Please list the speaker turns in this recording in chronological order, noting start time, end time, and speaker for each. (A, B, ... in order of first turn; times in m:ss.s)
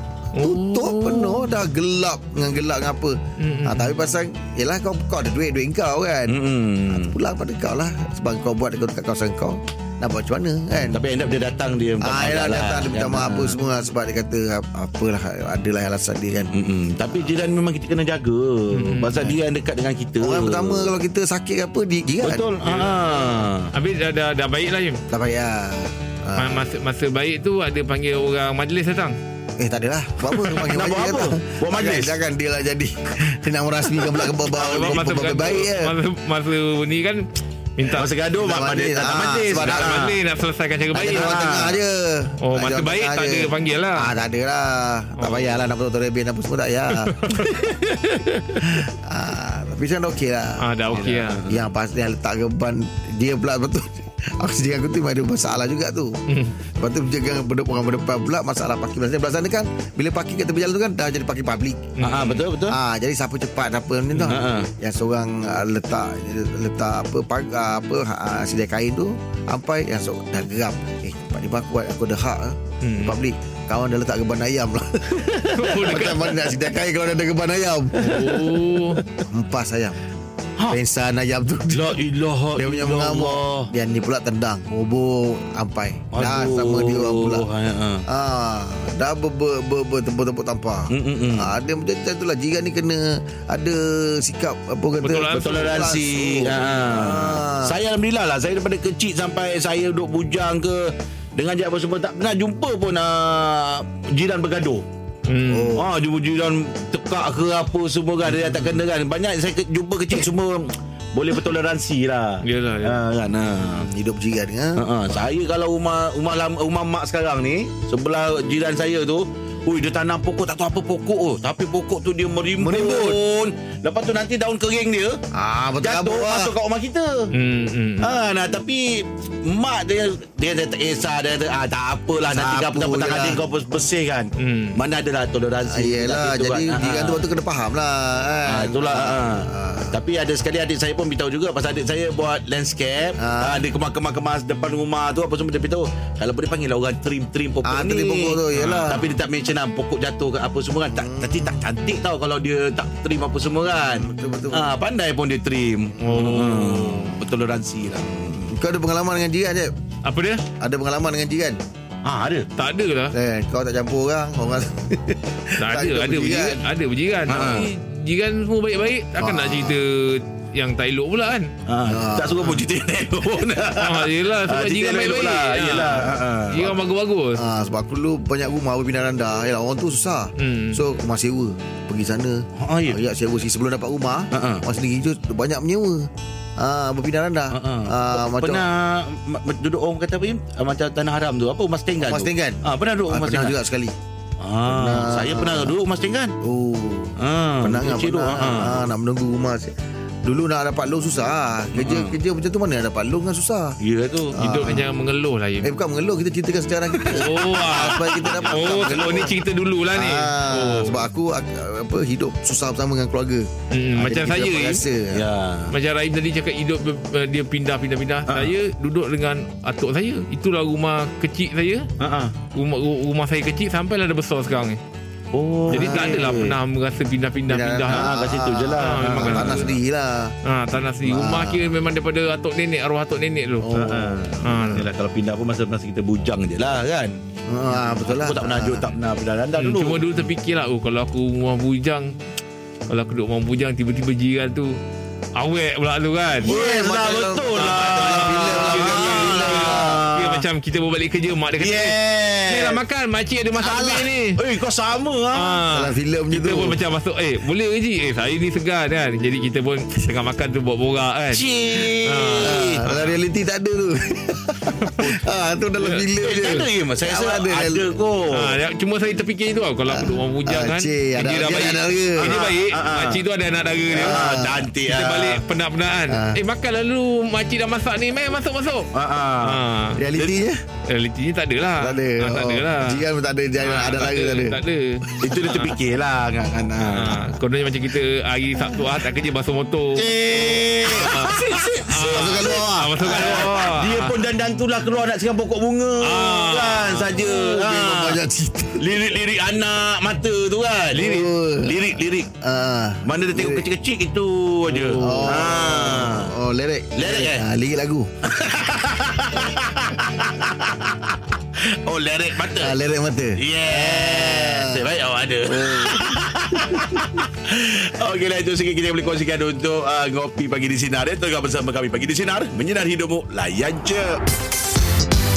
0:00.4-0:01.5 A
0:00.4-0:06.4 B
0:03.4-0:04.0 A
0:06.3-0:07.1 C
0:06.9-0:11.0 B
0:10.9-0:13.6 C
0:12.0-0:16.5 B
0:16.5-0:20.9 C
0:18.7-0:19.4 A
0:20.2-0:22.5 B
0:22.2-0:23.7 C
0:22.7-0:22.9 A
0:23.7-0:25.0 A
0:25.1-0:26.6 B
0:26.4-0:29.2 A
0:29.6-0:36.0 B
0:30.3-0:32.2 C
0:34.0-0:35.0 C
0:34.7-0:37.2 A
0:37.8-0:38.2 A
0:37.9-0:40.2 C
0:38.3-0:40.0 B
0:39.6-0:41.4 A
0:40.9-0:47.3 B
0:40.9-0:41.8 C
0:42.4-0:44.1 A
0:45.1-0:45.5 A
0:46.9-0:48.8 A
0:48.6-0:56.1 B
0:50.6-0:51.4 A
0:50.9-0:51.6 C
0:56.3-0:56.6 A
0:56.8-1:01.9 B
1:01.9-1:02.5 A
1:02.0-1:02.8 C
1:02.7-1:18.4 B
1:04.2-1:04.7 C
1:12.8-1:13.2 A
1:15.2-1:16.4 A
1:17.9-1:19.0 A
1:19.2-1:20.0 B
1:20.7-1:22.0 B
1:21.7-1:23.7 C
1:22.6-1:27.4 B
1:26.1-1:28.0 C
1:28.1-1:37.8 B
1:30.9-1:31.5 C
1:35.0-1:35.7 A
1:35.3-1:40.8 C
1:41.3-1:44.8 C
1:45.3-1:45.9 A
1:45.5-1:45.8 B
1:45.7-1:53.9 C
1:52.4-1:53.0 A
1:53.8-1:54.8 B
1:54.8-2:05.2 C
2:02.6-2:03.2 B
2:05.3-2:06.5 B
2:05.8-2:07.3 C
2:07.3-2:08.2 A
2:08.0-2:17.2 C
2:12.2-2:13.4 B
2:14.4-2:14.8 A
2:15.6-2:20.0 B
2:18.5-2:38.4 C
2:23.2-2:23.7 B
2:27.6-2:29.1 B
2:28.6-2:28.8 A
2:30.9-2:31.6 B
2:33.9-2:34.7 B
2:36.0-2:37.0 A
2:38.3-2:39.7 B
2:40.0-2:40.4 A
2:40.6-2:41.6 B
2:42.0-2:42.4 C
2:42.6-2:43.1 A
2:43.1-2:46.6 B
2:45.6-2:51.5 A
2:47.3-2:47.7 C
2:49.2-2:49.8 B
2:51.7-2:56.7 C
2:51.9-2:52.6 B
2:53.7-2:57.4 A
2:57.3-3:06.1 B
3:00.4-3:00.8 A
3:02.6-3:03.0 C
3:04.3-3:04.6 C
3:06.6-3:08.6 B
3:07.5-3:13.6 C
3:12.0-3:13.9 B
3:14.4-3:16.3 C
3:14.7-3:15.8 B
3:16.4-3:19.7 B
3:17.2-3:18.9 C
3:20.2-3:23.8 B
3:21.8-3:22.2 C
3:23.8-3:24.3 C
3:24.3-3:24.9 B
3:24.4-3:25.7 A
3:25.6-3:29.4 B
3:27.0-3:31.0 A
3:29.9-3:35.2 B
3:33.7-3:34.9 A
3:35.1-3:35.7 C
3:35.7-3:41.9 A
3:38.3-3:38.5 C
3:42.0-3:42.3 C
3:42.5-3:44.8 A
3:45.3-3:46.6 C
3:45.7-3:46.6 B
3:45.7-3:48.1 A
3:47.4-3:50.3 B
3:47.9-3:49.8 C
3:48.8-3:49.7 A
3:50.4-3:53.7 A
3:51.0-3:51.7 B
3:53.6-3:54.2 B
3:53.7-3:57.2 C
3:54.4-3:54.9 A
3:57.5-3:58.9 B
3:57.7-4:00.2 C
3:59.6-4:02.1 A
4:02.9-4:04.7 A
4:05.4-4:06.6 A
4:06.4-4:10.0 B
4:06.4-4:10.4 C
4:07.9-4:14.4 A
4:11.6-4:12.8 C
4:13.6-4:15.6 C
4:15.3-4:23.1 A
4:15.7-4:16.8 B
4:21.3-4:22.9 C
4:22.4-4:27.9 B
4:24.8-4:25.0 A
4:25.8-4:26.7 A
4:26.2-4:28.5 C
4:28.3-4:34.2 A
4:29.9-4:32.4 B
4:31.7-4:33.2 C
4:33.9-4:34.7 B
4:33.9-4:35.4 C
4:34.8-4:38.9 A
4:36.1-4:36.4 B
4:38.9-4:39.6 C
4:39.4-4:40.0 A
4:40.0-4:40.6 B
4:40.9-4:43.0 A
4:41.8-4:44.6 B
4:43.6-4:45.7 A
4:45.2-4:47.2 C
4:46.9-4:50.2 A
4:49.9-4:58.2 C
4:50.8-4:54.2 A
4:52.1-4:53.5 B
4:56.0-4:57.5 A
4:57.2-4:58.8 B
4:58.8-5:02.3 C
5:00.9-5:01.9 B
5:02.4-5:03.7 B
5:03.0-5:06.3 C
5:04.7-5:05.4 A
5:05.0-5:08.1 B
5:07.0-5:07.4 C
5:08.3-5:11.2 C
5:11.8-5:12.8 C
5:12.6-5:14.8 B
5:13.4-5:24.2 C
5:15.4-5:17.0 B